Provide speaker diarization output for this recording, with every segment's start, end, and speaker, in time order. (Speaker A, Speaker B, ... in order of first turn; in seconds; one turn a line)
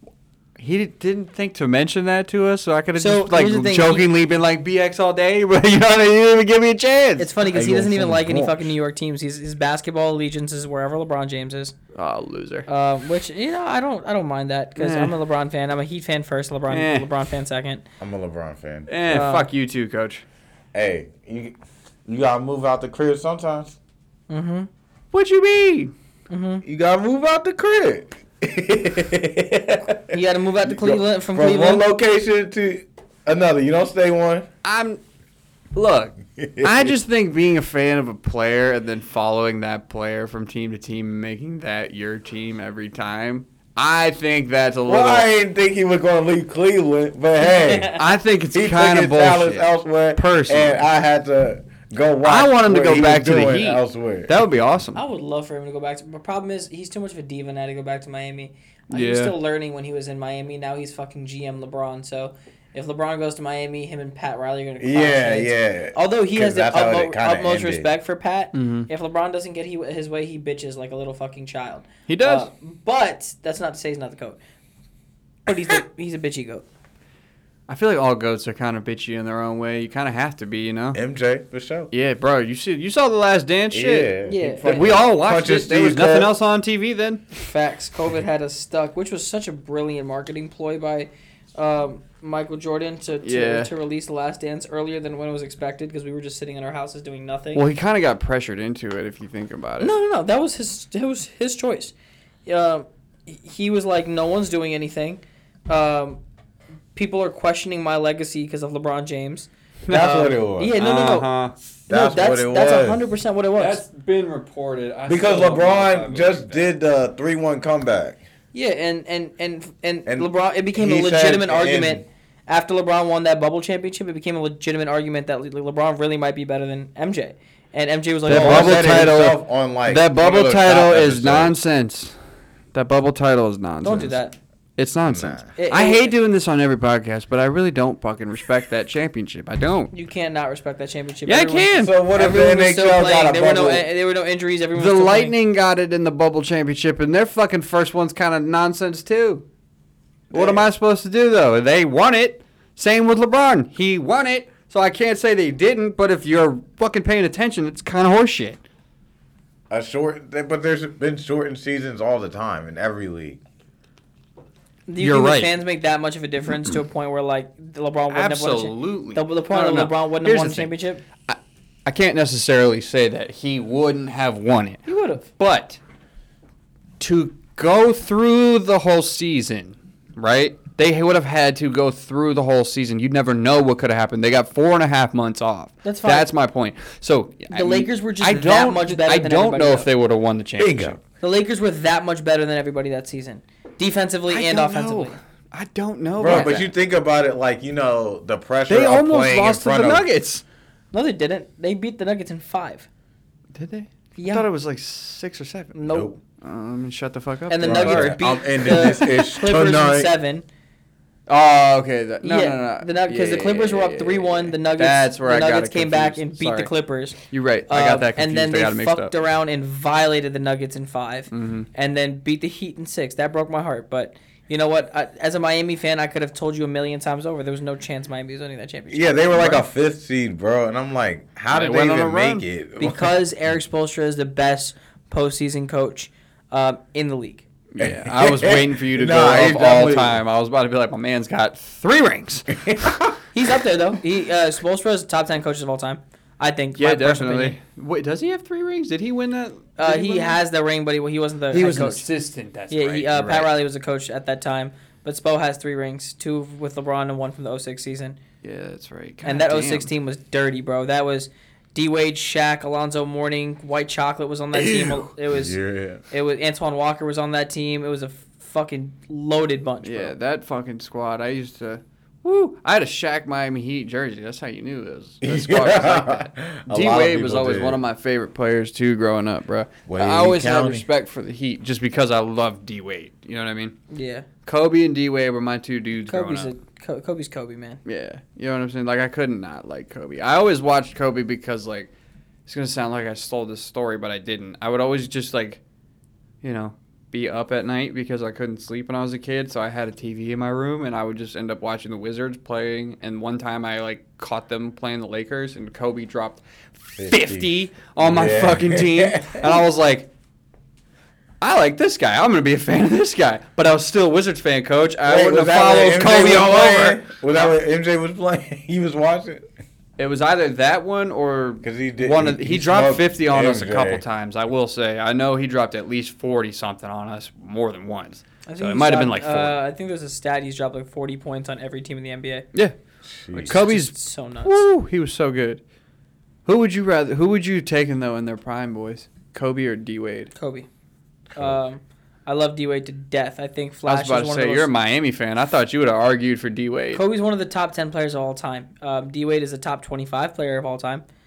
Speaker A: 0.6-7.3
Speaker B: 3.0-4.1
Speaker B: 7.2-11.8
Speaker C: 7.5-8.7
Speaker A: 11.9-12.7
Speaker B: 12.7-17.8
Speaker A: 14.8-15.1
Speaker A: 16.7-17.1
Speaker C: 18.0-18.9
Speaker A: 18.9-20.2
Speaker B: 19.1-19.5
Speaker C: 20.7-21.6
Speaker C: 22.1-23.8
Speaker B: 24.3-24.7
Speaker A: 25.1-25.9
Speaker B: 26.3-26.6
Speaker C: 26.6-34.5
Speaker B: 30.1-31.9
Speaker A: 34.6-35.0
Speaker A: 35.8-45.3
Speaker C: 36.4-36.9
Speaker C: 44.9-48.0
Speaker B: 47.4-48.0
Speaker A: 47.9-50.9
Speaker C: 48.5-54.3
Speaker A: 52.2-55.0
Speaker B: 55.0-74.4
Speaker A: 58.9-59.4
Speaker C: 64.8-67.9
Speaker A: 68.5-68.9
Speaker A: 72.1-72.5
Speaker B: 75.5-76.6
Speaker A: 77.7-81.0
Speaker C: 80.9-81.9
Speaker A: 81.9-87.3
Speaker C: 83.7-86.3
Speaker B: 84.2-85.0
Speaker B: 87.4-97.6
Speaker A: 93.2-93.7
Speaker A: 97.5-99.9
Speaker B: 99.8-101.9
Speaker B: 102.5-106.2
Speaker B: 106.9-111.3
Speaker A: 109.9-110.3
Speaker C: 109.9-110.8
Speaker A: 110.8-111.5
Speaker C: 111.9-113.0
Speaker B: 111.9-113.8
Speaker A: 113.6-116.7
Speaker C: 115.1-118.2
Speaker B: 118.5-129.1
Speaker C: 120.1-122.0
Speaker A: 128.3-132.2
Speaker C: 128.3-131.6
Speaker A: 132.7-134.2
Speaker B: 133.8-134.4
Speaker A: 134.8-139.9
Speaker C: 135.1-135.5
Speaker B: 135.6-136.1
Speaker B: 139.9-145.3
Speaker A: 141.3-141.9
Speaker C: 141.8-143.9
Speaker A: 144.8-149.4
Speaker C: 150.3-150.6
Speaker A: 150.3-158.6
Speaker C: 159.7-163.4
Speaker B: 164.9-171.0
Speaker A: 165.0-165.5
Speaker A: 168.1-170.7
Speaker A: 171.3-174.8
Speaker B: 174.9-175.3
Speaker A: 175.4-175.8
Speaker A: 177.0-191.0
Speaker B: 185.8-186.3
Speaker B: 187.5-189.9
Speaker C: 190.6-191.0
Speaker B: 191.2-195.2
Speaker A: 194.3-196.7
Speaker C: 196.2-200.1
Speaker B: 196.2-196.6
Speaker A: 198.7-200.4
Speaker B: 200.9-202.9
Speaker A: 203.6-205.8
Speaker B: 204.2-204.5
Speaker B: 205.8-206.1
Speaker C: 205.9-206.2
Speaker A: 206.4-209.1
Speaker B: 207.5-210.4
Speaker C: 207.6-210.1
Speaker A: 211.3-216.7
Speaker B: 212.2-229.7
Speaker A: 217.3-219.1
Speaker A: 221.3-221.7
Speaker C: 228.9-233.2
Speaker A: 231.5-232.4
Speaker B: 232.8-237.4
Speaker A: 237.7-243.1
Speaker C: 237.8-240.2
Speaker C: 242.6-243.1
Speaker B: 243.3-247.6
Speaker A: 246.8-250.4
Speaker B: 249.8-252.1
Speaker A: 251.5-253.5
Speaker B: 252.7-258.2
Speaker A: 258.4-259.9
Speaker B: 259.2-265.6
Speaker A: 264.5-265.1
Speaker C: 265.3-266.0
Speaker B: 266.1-270.1
Speaker A: 269.8-283.7
Speaker C: 275.2-277.8
Speaker C: 279.9-280.9
Speaker B: 283.9-284.3
Speaker A: 284.4-286.5
Speaker B: 286.1-287.8
Speaker A: 287.9-291.9
Speaker A: 292.4-295.6
Speaker A: 296.4-310.1
Speaker C: 307.0-309.6
Speaker A: 311.4-317.5
Speaker C: 315.1-319.4
Speaker A: 320.0-329.6
Speaker C: 321.6-324.0
Speaker B: 328.5-332.5
Speaker C: 333.1-333.6
Speaker B: 333.3-334.6
Speaker A: 333.4-335.6
Speaker A: 336.4-340.3
Speaker B: 340.4-340.7
Speaker B: 341.3-344.7
Speaker A: 343.9-347.0
Speaker B: 346.9-351.0